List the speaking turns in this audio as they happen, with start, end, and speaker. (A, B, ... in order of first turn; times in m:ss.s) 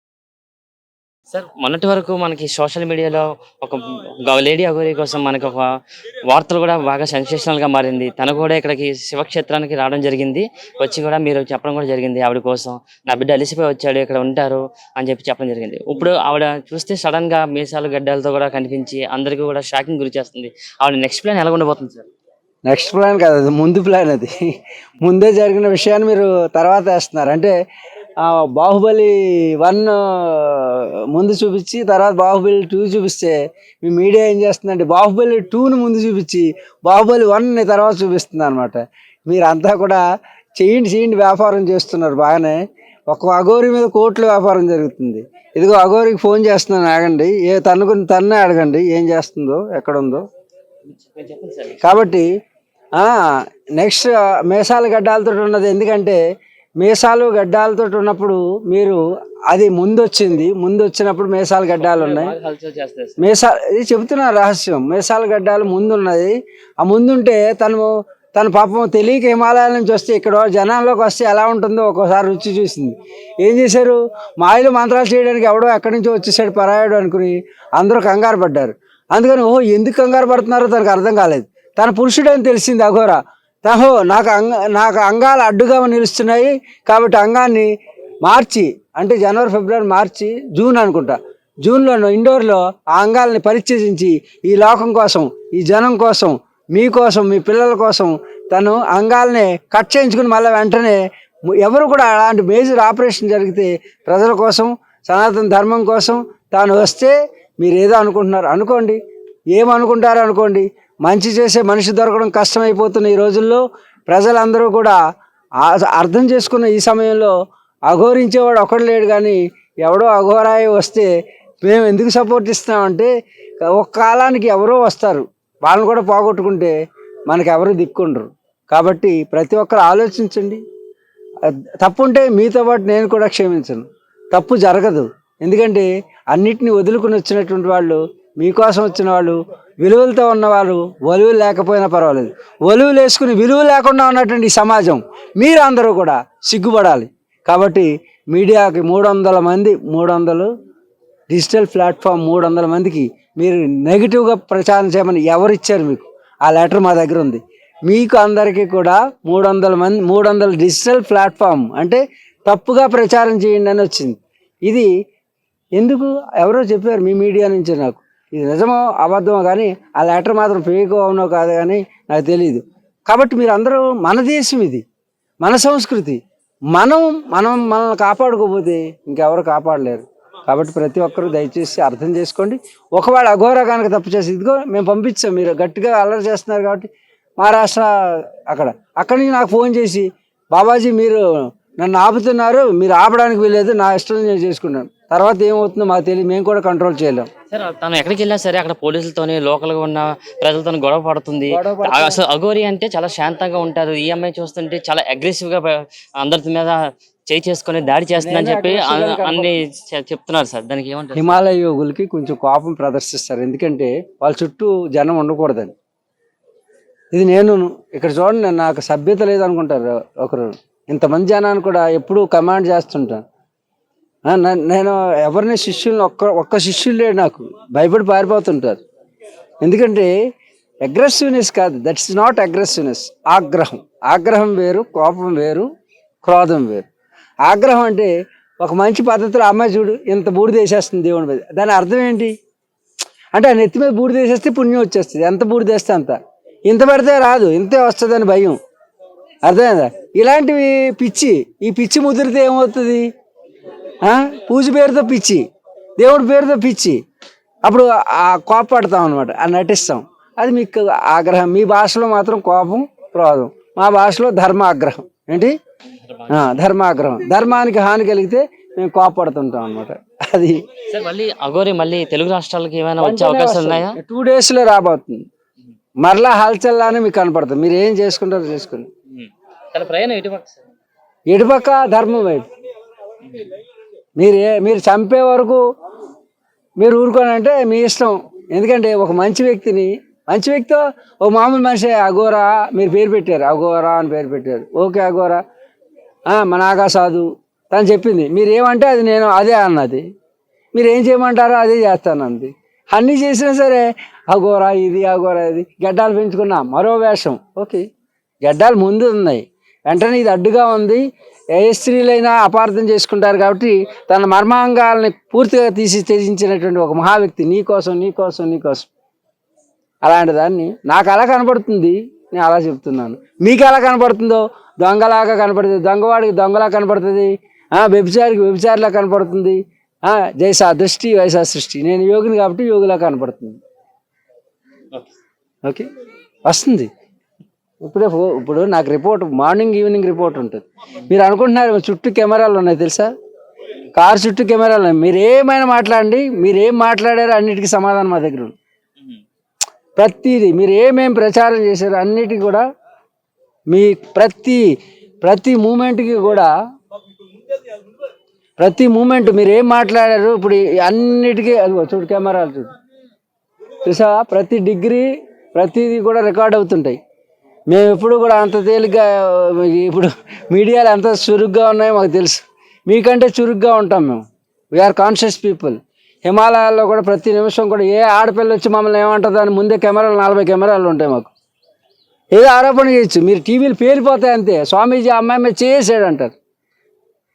0:01.3-0:05.7 A
0:06.3-0:22.1 A
0:22.6-0:24.3 B
0:25.0-0:27.5 B
0:28.2-0:40.0 B
0:40.6-0:50.2 B
0:50.9-0:51.8 A
0:51.8-0:52.2 B
0:53.8-0:56.2 B
0:56.8-1:02.3 B
1:01.8-1:03.2 A
1:03.2-1:27.7 B
1:28.2-1:49.0 B
1:49.5-1:55.0 B
1:55.6-1:57.3 B
1:57.9-2:01.1 B
2:01.6-2:03.1 B
2:03.6-2:06.7 B
2:07.3-2:10.6 B
2:11.4-2:30.5 B
2:31.3-2:44.9 B
2:45.8-2:54.8 B
2:55.4-2:56.2 B
2:56.7-3:11.2 B
3:11.8-3:17.3 B
3:17.5-3:26.8 A
3:21.5-3:22.2 B
3:27.3-3:31.4 A
3:28.2-3:29.6 B
3:31.1-3:35.7 B
3:37.1-3:43.2 B
3:44.3-3:48.8 B
3:49.6-3:50.1 B
3:50.8-3:55.7 B
3:56.2-3:56.8 B
3:57.4-4:02.3 B
4:03.3-4:08.6 B
4:09.4-4:13.0 B
4:14.0-4:15.4 B
4:16.0-4:17.0 B
4:17.6-4:25.5 B
4:26.0-4:26.6 A
4:26.3-4:30.6 B
4:30.9-4:34.0 A
4:33.0-4:35.2 B
4:36.0-4:38.9 B
4:39.1-4:40.7 A
4:41.3-4:42.4 B
4:44.2-4:45.6 B
4:46.8-4:55.4 B
4:56.3-5:00.0 B
5:00.7-5:07.8 B
5:08.4-5:11.0 B
5:11.6-5:18.9 B
5:20.0-5:33.6 B
5:36.5-5:36.9 B
5:37.8-5:43.1 B
5:43.9-5:48.5 B
5:50.0-5:52.6 B
5:53.7-5:54.6 B
5:55.2-5:56.5 B
5:58.6-6:02.7 B
6:03.8-6:07.0 B
6:07.7-6:21.3 B
6:22.3-6:26.3 B